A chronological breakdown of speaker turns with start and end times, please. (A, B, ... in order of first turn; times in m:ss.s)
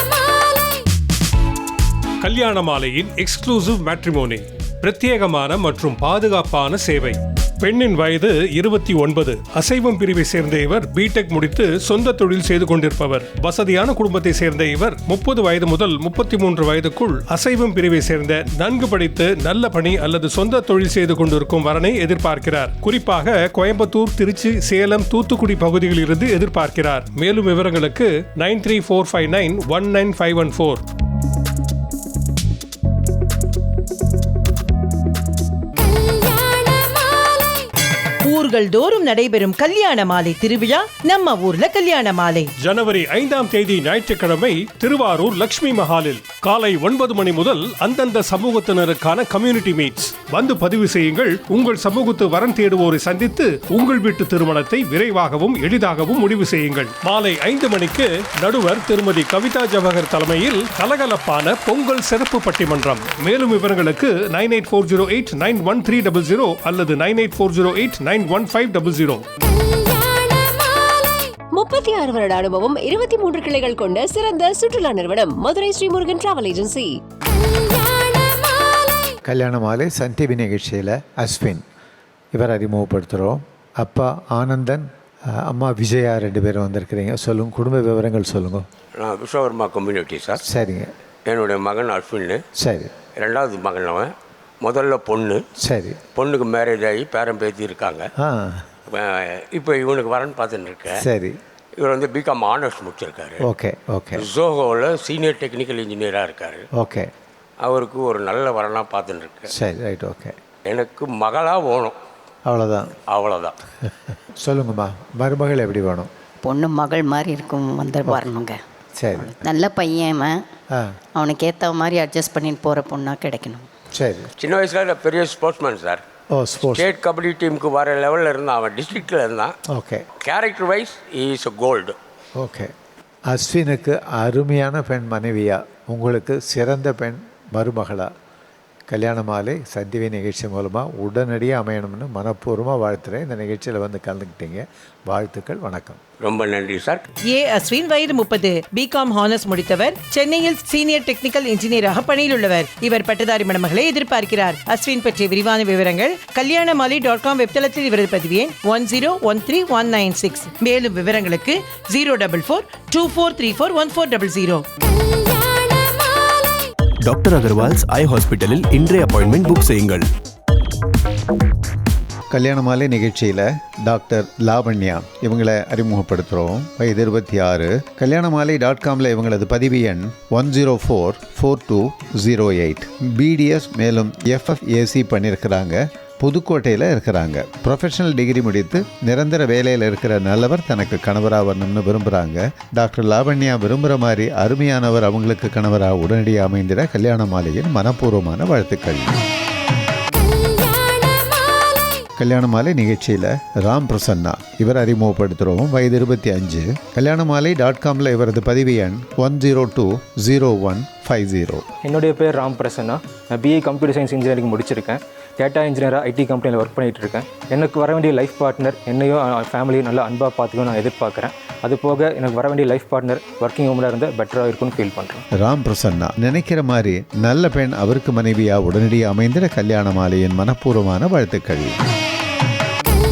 0:02.2-0:30.8 A
0:38.2-0:42.5 B
0:42.6-1:09.2 A
1:11.5-1:17.0 C
1:19.3-1:21.6 D
1:22.3-1:24.8 D
1:25.4-1:28.6 D
1:29.0-1:30.4 E
1:30.5-1:30.9 D
1:31.2-1:32.4 E
1:32.6-1:32.9 D
1:33.2-1:35.4 E
1:35.6-1:36.0 D
1:36.1-1:38.1 E
1:38.2-1:38.6 D
1:38.9-1:41.0 E
1:40.9-1:41.4 D
1:41.8-1:43.4 E
1:43.4-1:44.2 D
1:44.2-1:46.6 E
1:46.8-1:47.1 D
1:47.6-1:49.5 E
1:49.5-1:50.3 D
1:50.6-1:52.0 E
1:52.5-1:53.0 D
1:53.1-1:53.5 E
1:53.8-1:56.1 D
1:56.4-1:58.6 F
1:59.0-1:59.3 D
1:59.2-2:00.4 F
2:01.2-2:03.7 F
2:03.9-2:04.3 D
2:04.4-2:06.0 E
2:06.3-2:06.9 D
2:06.7-2:09.5 E
2:09.7-2:10.0 D
2:10.2-2:11.9 E
2:12.4-2:12.7 D
2:13.3-2:18.0 D
2:18.9-2:26.0 D
2:26.2-2:27.0 E
2:27.3-2:44.6 B
2:47.0-2:50.1 G
2:52.3-3:19.2 D
3:22.2-3:31.6 D
3:31.8-3:45.2 H
3:45.3-3:51.7 D